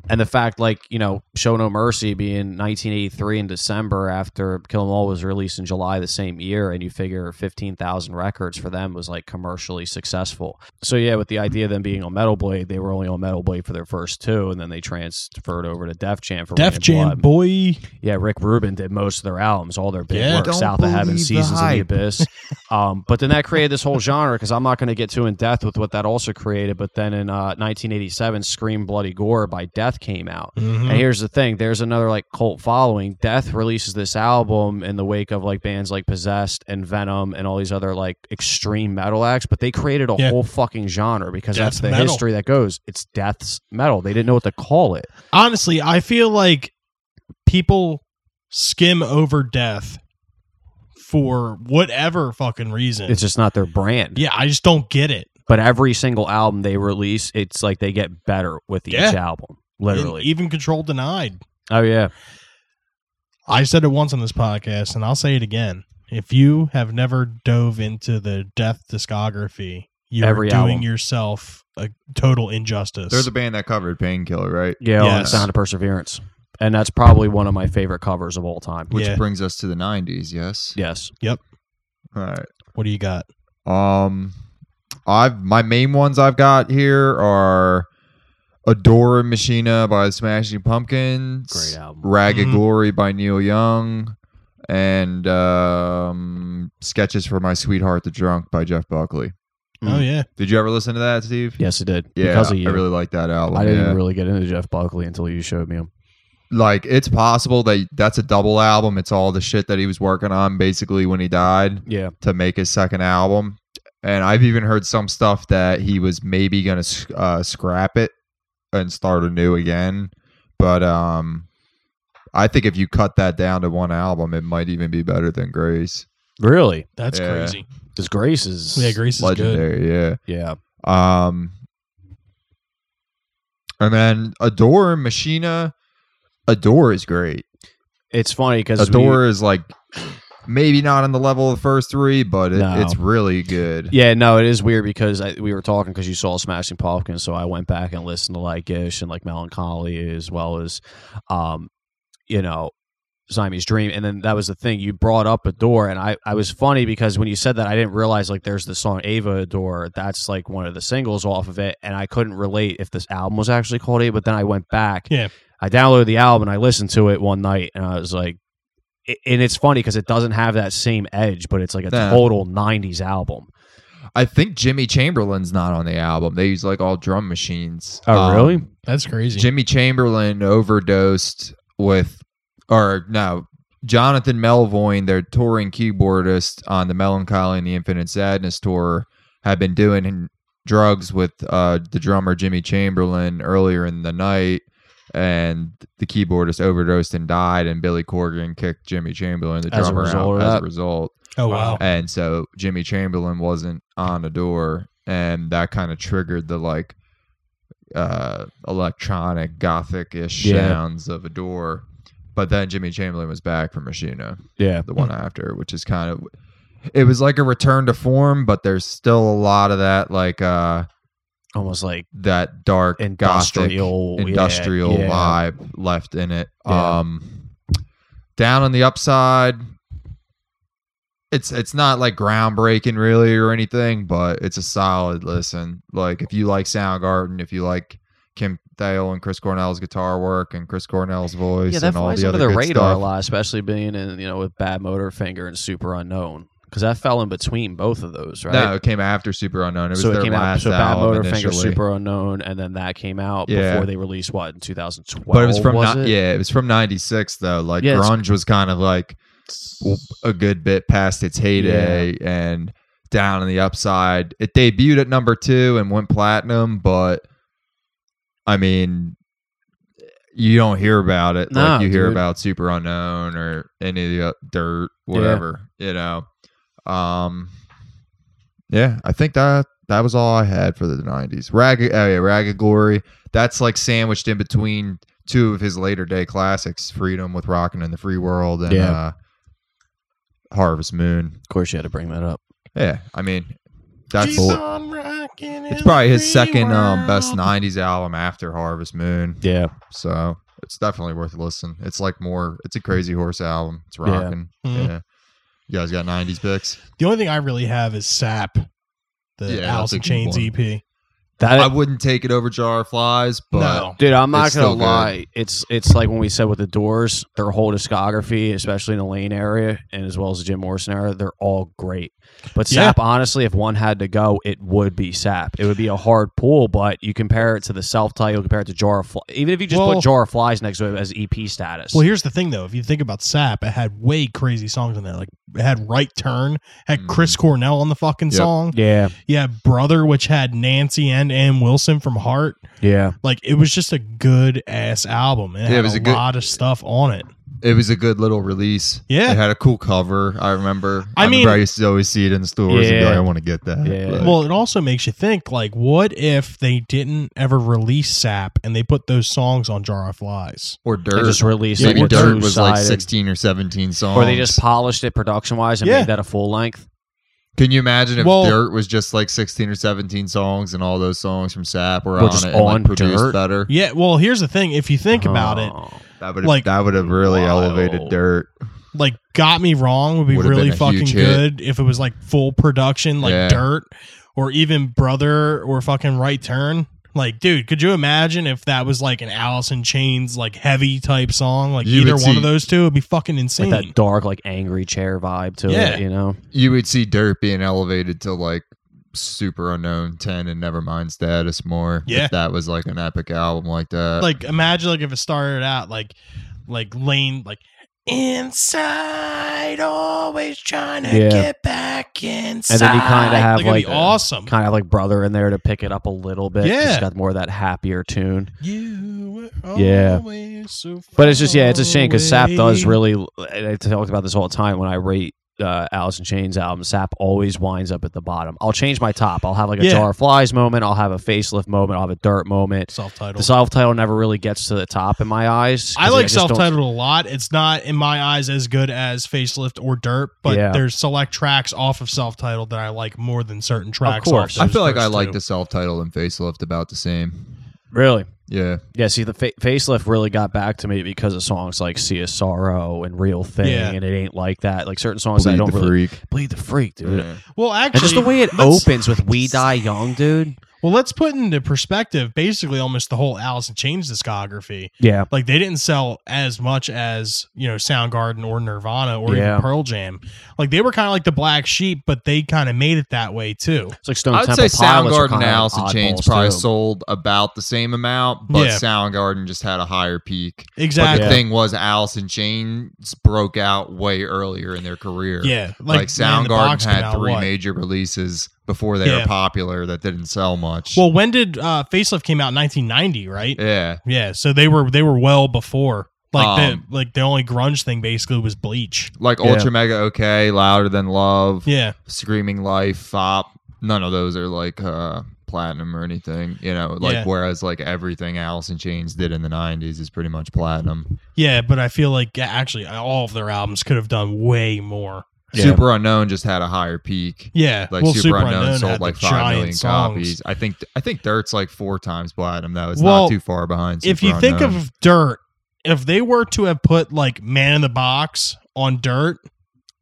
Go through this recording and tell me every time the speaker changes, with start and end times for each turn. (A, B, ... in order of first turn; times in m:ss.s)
0:00.1-0:17.2 A
0:16.6-0:17.8 B
0:18.0-0:45.1 A
0:20.1-0:20.5 B
0:20.3-0:22.0 C
0:30.6-0:31.0 B
0:41.5-0:42.2 B
0:45.3-0:46.7 B
0:47.5-0:50.0 B
0:51.0-0:53.2 B
0:53.1-0:54.2 A
0:54.2-0:55.3 B
0:55.5-1:00.3 A
0:58.9-0:59.2 B
0:59.9-1:01.4 B
1:01.7-1:02.1 A
1:03.5-1:13.3 B
1:10.2-1:10.9 A
1:13.1-1:15.5 C
1:14.8-1:18.9 A
1:15.0-1:15.5 B
1:18.9-1:20.8 C
1:18.9-1:19.2 B
1:20.8-1:21.1 A
1:22.1-1:22.5 C
1:22.8-1:23.3 B
1:23.7-1:24.4 C
1:25.1-1:27.9 C
1:28.7-1:34.2 C
1:31.5-1:32.1 A
1:32.3-1:32.6 B
1:34.7-1:39.3 C
1:39.8-1:40.3 B
1:40.4-1:41.6 C
1:41.6-1:42.8 A
1:42.2-1:44.0 C
1:43.5-1:45.9 A
1:46.5-1:58.1 C
1:51.9-1:52.1 A
1:58.7-2:01.5 C
2:02.3-2:06.1 C
2:06.4-2:06.9 A
2:07.0-2:07.7 B
2:07.1-2:07.6 C
2:08.0-2:09.0 A
2:08.8-2:09.6 B
2:09.2-2:10.2 C
2:10.3-2:10.6 A
2:10.8-2:11.5 C
2:13.8-2:15.7 C
2:16.5-2:17.4 C
2:18.1-2:19.2 A
2:18.8-2:19.8 C
2:20.4-2:23.9 C
2:22.5-2:23.0 A
2:23.9-2:31.7 A
2:32.3-2:32.7 A
2:33.3-2:45.1 A
2:45.6-2:48.4 A
2:49.1-2:53.5 A
2:51.9-2:52.2 C
2:54.2-2:58.7 C
2:58.1-2:58.7 A
2:58.9-2:59.5 B
2:59.3-3:21.2 C
3:19.7-3:20.6 A
3:21.4-3:21.8 B
3:21.5-3:21.8 A
3:21.8-3:27.0 C
3:27.9-3:31.8 C
3:30.4-3:30.8 A
3:32.4-3:36.3 C
3:34.6-3:34.9 A
3:36.9-3:40.9 C
3:41.6-3:42.1 A
3:42.1-3:47.5 C
3:43.0-3:45.4 A
3:46.7-3:47.0 A
3:48.4-3:49.7 C
3:51.3-4:03.0 C
4:01.7-4:08.7 A
4:08.5-4:11.8 C
4:10.0-4:16.1 A
4:13.5-4:13.9 C
4:15.3-4:19.2 C
4:17.8-4:18.2 A
4:19.5-4:20.0 A
4:19.8-4:27.2 C
4:21.6-4:22.1 A
4:28.5-4:29.2 C
4:30.3-4:36.3 C
4:31.5-4:32.2 A
4:35.1-4:35.4 A
4:36.9-4:37.5 C
4:38.7-4:49.1 C
4:48.7-4:49.0 A
4:50.5-4:51.4 C
4:51.5-4:52.4 A
4:52.8-4:53.6 C
4:54.1-4:54.6 C
4:54.2-4:57.5 B
4:54.3-4:54.6 A
4:55.7-5:05.0 C
4:59.4-4:59.7 A
5:04.0-5:04.3 A
5:04.6-5:04.9 B
5:05.7-5:06.8 C
5:07.0-5:08.7 B
5:09.4-5:10.8 B
5:09.5-5:10.5 C
5:11.4-5:11.7 A
5:11.5-5:15.1 C
5:13.5-5:14.0 B
5:14.0-5:32.0 A
5:22.7-5:23.0 B
5:29.7-5:30.1 B
5:31.9-5:42.6 B
5:37.0-5:37.4 C
5:38.7-5:39.1 A
5:42.8-5:43.2 A
5:43.2-5:47.3 B
5:45.7-5:46.3 C
5:47.6-5:54.4 C
5:49.1-5:49.4 B
5:51.2-5:51.6 B
5:52.7-5:53.3 A
5:53.8-5:54.3 A
5:54.2-6:00.8 B
6:00.8-6:04.6 C
6:01.2-6:03.1 A
6:01.8-6:02.4 B
6:04.1-6:06.9 A
6:05.8-6:06.1 B
6:07.6-6:13.7 C
6:08.2-6:08.6 B
6:12.2-6:13.4 A
6:13.7-6:15.8 B
6:15.1-6:16.0 A
6:16.2-6:18.5 C
6:16.4-6:16.7 B
6:17.0-6:18.2 A
6:18.9-6:33.9 B
6:20.3-6:21.4 C
6:23.2-6:23.6 C
6:31.8-6:32.5 C
6:33.6-6:36.4 A
6:35.7-6:36.0 B
6:36.5-6:44.3 C
6:44.2-6:46.2 B
6:46.7-6:54.5 B
6:51.1-6:51.5 A
6:52.7-6:58.5 A
6:56.6-6:57.1 B
6:58.6-7:03.0 B
6:59.8-7:00.2 A
7:01.2-7:16.7 A
7:09.8-7:10.1 B
7:12.9-7:13.5 B
7:16.0-7:25.4 B
7:20.5-7:20.8 A
7:24.0-7:24.6 A
7:24.6-7:27.6 C
7:27.9-7:28.3 A
7:28.5-7:28.8 C
7:28.9-7:37.3 A
7:33.6-7:34.0 B
7:35.4-7:36.2 C
7:37.0-7:37.4 C
7:37.5-7:39.7 B
7:37.9-7:40.6 A
7:40.8-7:54.0 B
7:45.0-7:45.3 A
7:49.3-7:49.7 A
7:54.0-7:56.7 A
7:54.3-8:11.0 C
7:58.5-7:58.8 B
8:00.8-8:01.4 B
8:01.1-8:01.4 A
8:05.4-8:07.5 B
8:09.0-8:09.3 B
8:11.0-8:19.1 B
8:13.6-8:14.0 C
8:16.3-8:16.8 C
8:19.2-8:31.1 C
8:19.4-8:19.7 A
8:21.7-8:22.0 B
8:27.0-8:27.3 B
8:31.4-8:35.7 B
8:35.5-8:35.8 A
8:35.5-8:44.8 C
8:37.5-8:40.4 B
8:43.0-8:43.4 B
8:44.0-8:49.4 B